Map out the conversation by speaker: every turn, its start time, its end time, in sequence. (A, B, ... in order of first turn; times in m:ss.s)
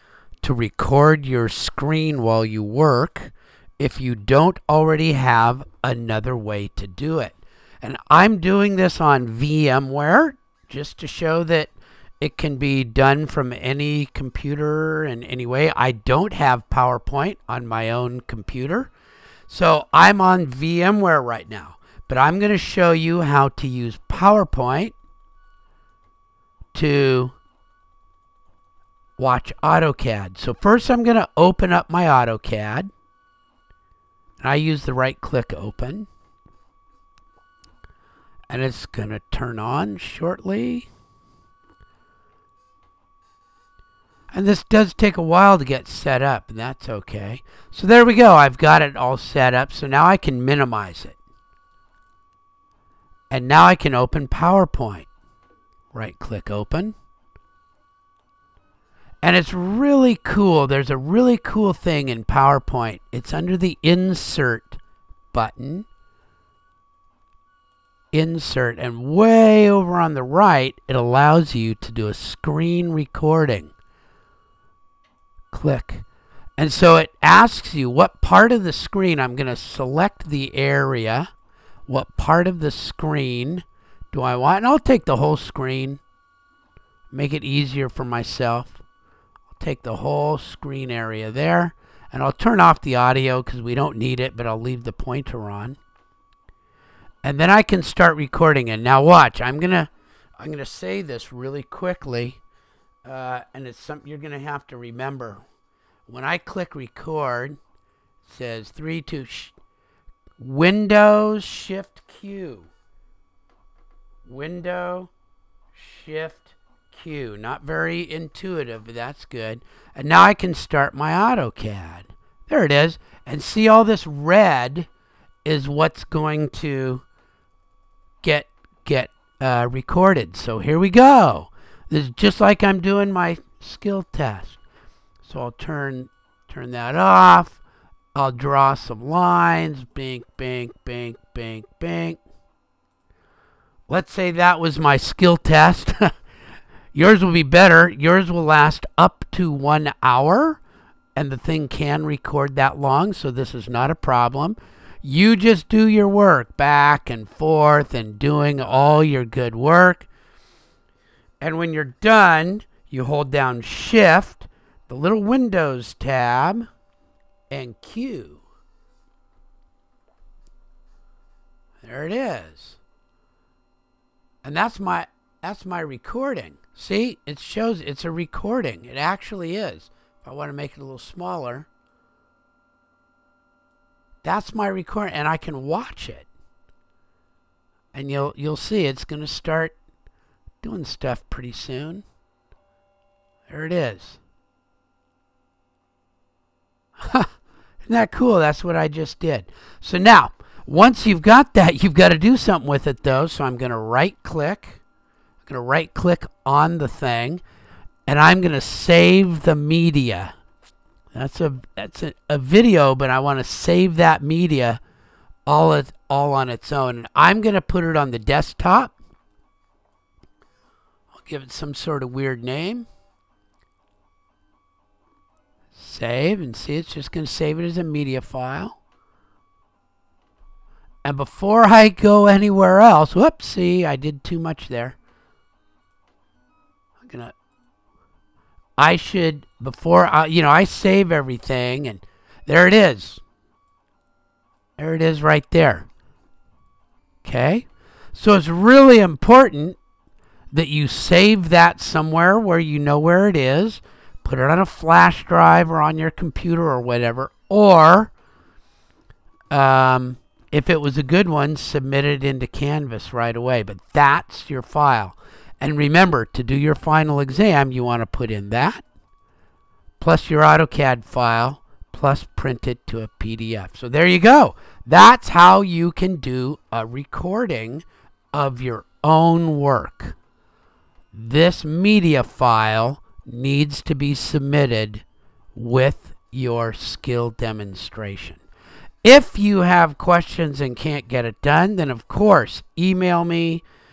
0:00.4-0:18.9 A
0:19.5-0:24.9 A
0:26.7-0:27.3 A
0:29.2-0:32.9 A
0:34.4-0:36.1 A
0:38.5-0:40.9 A
0:44.3-0:51.2 A
0:53.3-0:55.1 A
0:55.9-0:56.9 A
0:59.2-1:04.8 A
1:05.3-1:05.9 A
1:08.1-1:13.7 A
1:15.5-1:16.0 A
1:16.6-1:21.3 A
1:21.9-1:26.0 A
1:27.1-1:28.8 A
1:29.5-1:35.8 A
1:37.2-1:42.4 A
1:43.0-1:45.4 A
1:46.1-1:47.6 A
1:48.2-1:49.5 A
1:50.4-1:52.7 A
1:54.2-1:55.1 A
1:55.7-2:04.9 A
2:05.4-2:07.0 A
2:08.2-2:14.6 A
2:15.2-2:17.6 A
2:18.1-2:22.2 A
2:23.9-2:26.1 A
2:26.9-2:30.6 A
2:31.1-2:40.1 A
2:41.4-2:46.7 A
2:47.5-2:48.4 A
2:51.8-2:52.8 A
2:54.4-3:01.7 A
3:04.2-3:06.3 A
3:07.9-3:09.7 A
3:10.6-3:12.0 A
3:13.5-3:14.2 A
3:17.0-3:17.3 A
3:17.8-3:24.8 A
3:25.4-3:27.4 A
3:28.1-3:30.3 A
3:31.1-3:34.8 A
3:35.4-3:38.9 A
3:41.1-3:42.9 A
3:45.7-3:48.8 A
3:51.0-3:55.0 A
3:57.0-3:57.3 A
3:58.8-4:03.2 A
4:04.8-4:05.9 A
4:07.2-4:09.8 A
4:10.5-4:18.1 A
4:19.5-4:28.8 A
4:30.0-4:40.1 A
4:41.1-4:45.0 A
4:45.5-4:48.4 A
4:49.0-4:53.6 A